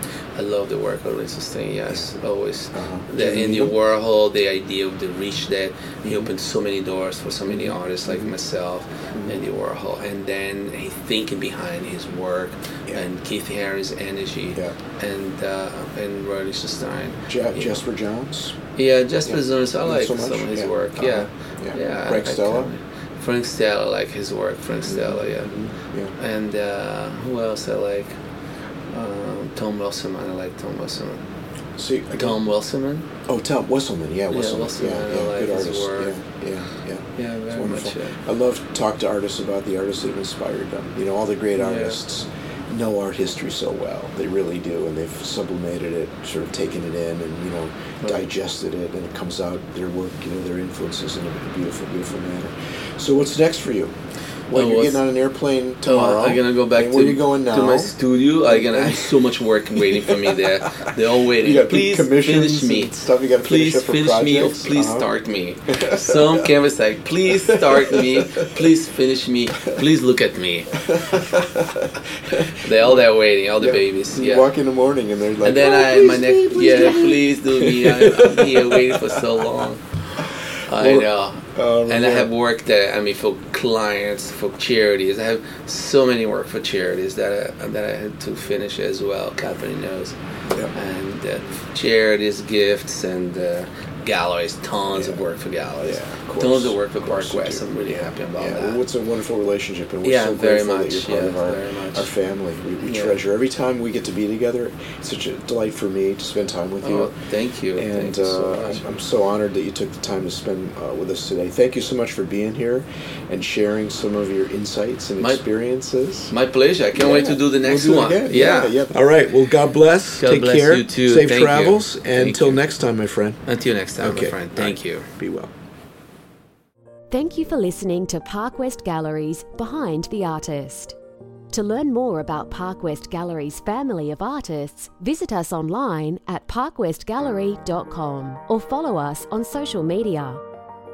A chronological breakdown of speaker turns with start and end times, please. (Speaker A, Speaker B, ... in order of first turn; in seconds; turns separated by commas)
Speaker A: 0.3-17.8, Speaker B: 2.7-3.7, Speaker B: 7.5-8.3, Speaker B: 17.3-18.6, Speaker A: 18.8-25.5, Speaker B: 19.2-22.7, Speaker B: 24.9-26.1, Speaker A: 26.2-28.1, Speaker A: 28.9-31.2, Speaker B: 31.8-32.4, Speaker A: 32.2-33.1, Speaker B: 33.2-53.9, Speaker A: 34.3-36.2, Speaker A: 37.2-38.1, Speaker A: 41.6-42.0, Speaker B: 54.5-57.9, Speaker A: 54.5-55.0, Speaker A: 55.8-70.8, Speaker B: 58.5-59.2, Speaker B: 59.8-65.1, Speaker B: 65.7-66.5, Speaker B: 67.4-68.5, Speaker B: 70.8-73.0, Speaker A: 72.5-74.5, Speaker B: 73.6-79.2, Speaker A: 75.4-90.1, Speaker B: 80.2-82.3, Speaker A: 90.7-98.8, Speaker B: 94.9-95.2, Speaker B: 95.8-107.1, Speaker A: 100.0-102.1, Speaker A: 102.8-103.2, Speaker A: 106.8-108.8, Speaker B: 107.8-116.3, Speaker A: 116.3-118.9, Speaker B: 117.0-123.4, Speaker A: 120.2-122.6, Speaker A: 123.5-125.0, Speaker B: 124.0-125.5, Speaker C: 127.1-130.9, Speaker C: 131.5-140.4